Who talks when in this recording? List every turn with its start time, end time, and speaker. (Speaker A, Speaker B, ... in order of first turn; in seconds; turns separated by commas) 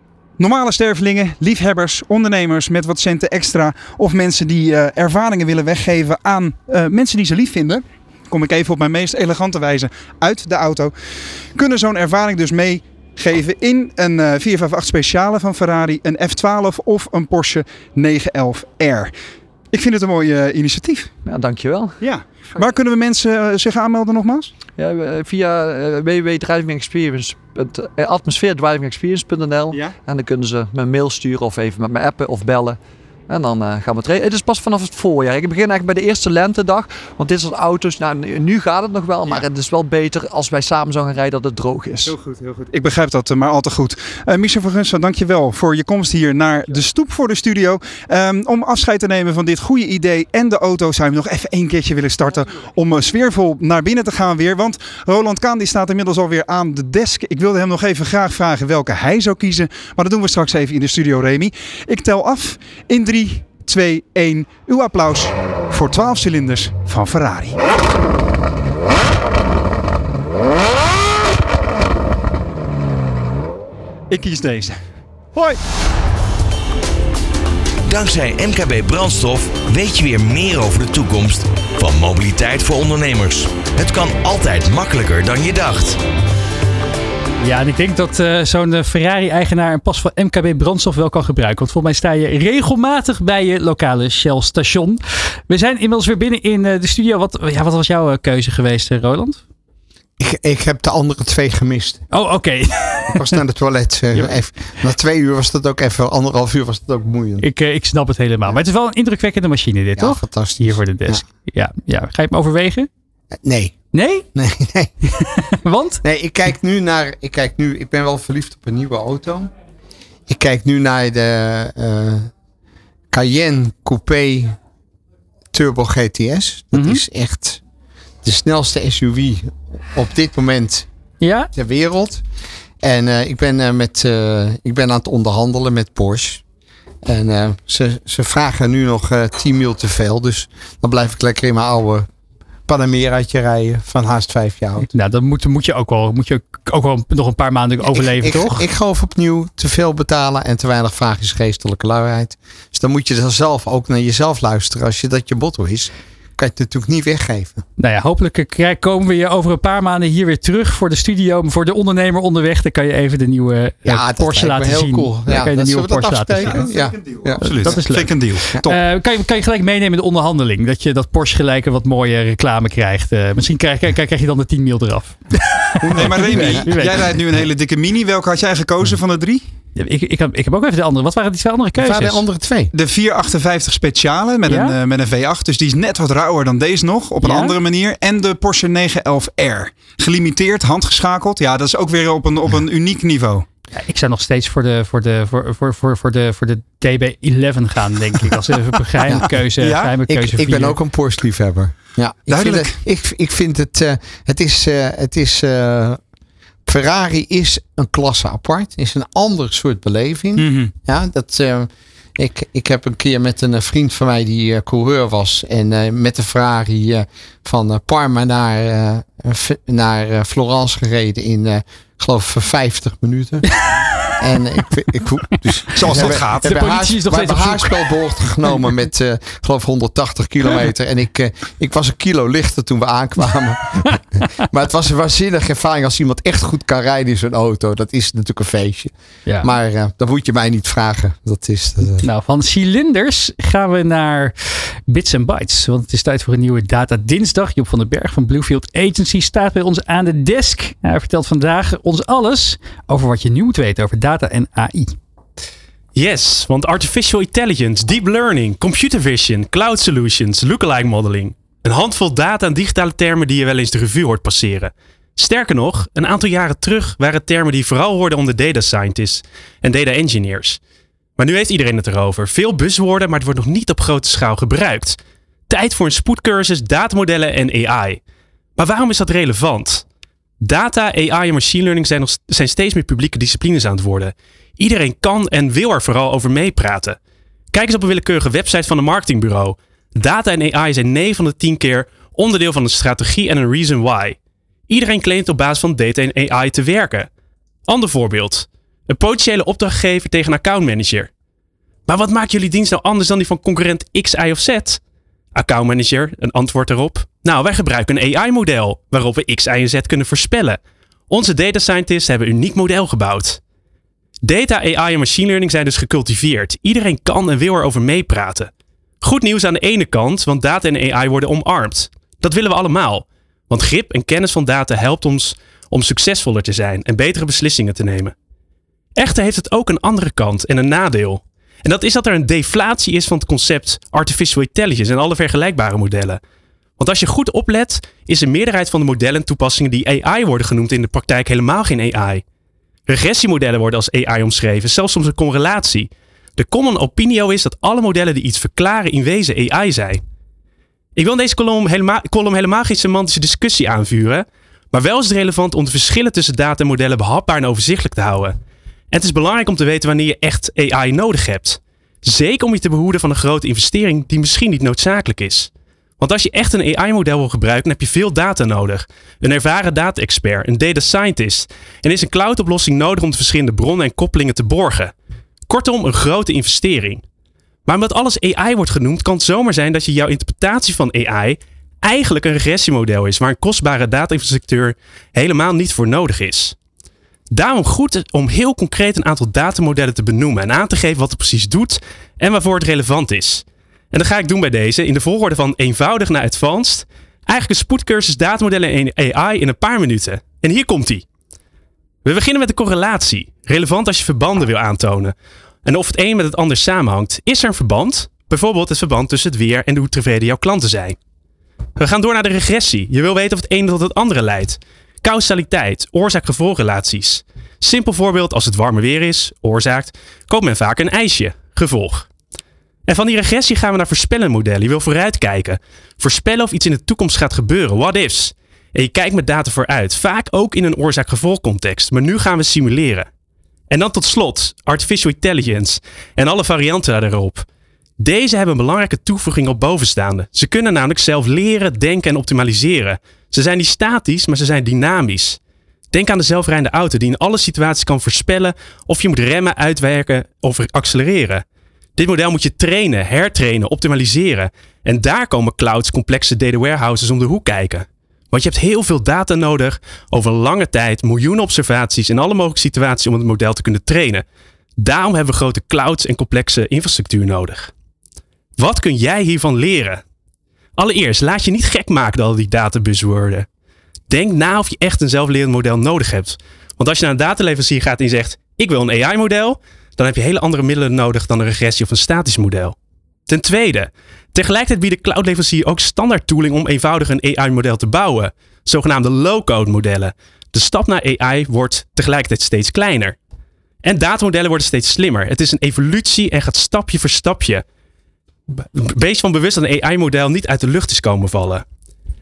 Speaker A: 0.4-19.1, Speaker A: 19.7-21.1, Speaker B: 21.2-22.0, Speaker A: 22.0-24.5, Speaker B: 24.8-32.8, Speaker B: 33.3-42.1, Speaker A: 42.0-67.6, Speaker A: 74.1-74.8, Speaker C: 77.9-86.0, Speaker D: 87.4-99.4, Speaker E: 100.2-102.0, Speaker D: 102.1-103.4, Speaker E: 103.1-107.5, Speaker D: 107.4-112.9, Speaker E: 110.0-111.2, Speaker E: 113.4-113.8, Speaker D: 113.9-114.2, Speaker E: 114.3-114.9, Speaker D: 115.1-116.0, Speaker E: 116.0-119.5, Speaker E: 120.3-122.3, Speaker E: 123.1-124.5, Speaker E: 125.5-127.6, Speaker D: 126.7-127.0, Speaker E: 128.2-130.9, Speaker D: 131.2-131.5, Speaker E: 131.5-132.2, Speaker E: 132.8-136.4, Speaker E: 137.0-142.1, Speaker E: 142.7-144.9, Speaker D: 144.8-148.7, Speaker E: 147.9-157.6, Speaker D: 157.8-166.6, Speaker E: 163.8-167.8, Speaker A: 166.4-168.8, Speaker D: 167.4-177.1, Speaker E: 175.8-176.8, Speaker A: 175.9-179.4, Speaker D: 179.8-182.2, Speaker E: 181.8-182.7, Speaker A: 182.7-193.4, Speaker D: 184.5-184.7, Speaker D: 187.2-187.6, Speaker D: 193.7-200.8, Speaker E: 199.1-199.3, Speaker A: 199.6-199.9, Speaker E: 200.1-206.0, Speaker A: 202.3-202.7, Speaker E: 206.7-223.5, Speaker A: 210.4-210.7, Speaker E: 224.2-242.1, Speaker A: 225.7-226.5, Speaker D: 225.9-227.9, Speaker D: 239.3-239.5, Speaker D: 242.0-244.3, Speaker D: 244.9-254.9, Speaker F: 255.9-270.6, Speaker F: 271.2-275.0, Speaker F: 275.5-278.0, Speaker F: 278.6-279.8, Speaker F: 280.4-287.0, Speaker F: 287.5-294.2, Speaker F: 294.7-297.1, Speaker F: 297.7-301.1, Speaker F: 301.9-304.8, Speaker F: 305.3-313.4, Speaker F: 314.2-318.5, Speaker F: 319.0-328.1, Speaker F: 329.0-336.2, Speaker F: 336.8-342.2, Speaker F: 342.9-350.0, Speaker F: 350.9-358.4, Speaker F: 358.9-374.9, Speaker F: 375.4-377.0, Speaker F: 377.6-386.6, Speaker F: 387.3-401.1, Speaker F: 402.1-405.1, Speaker F: 405.6-411.0, Speaker F: 411.8-422.1, Speaker F: 422.9-433.1, Speaker F: 433.7-437.4, Speaker F: 438.0-445.4, Speaker F: 445.9-451.4, Speaker F: 451.9-464.2, Speaker F: 464.8-467.7, Speaker F: 468.6-470.0, Speaker F: 470.8-473.5, Speaker F: 474.1-482.7, Speaker F: 483.3-493.1, Speaker F: 493.8-497.6, Speaker F: 498.6-501.6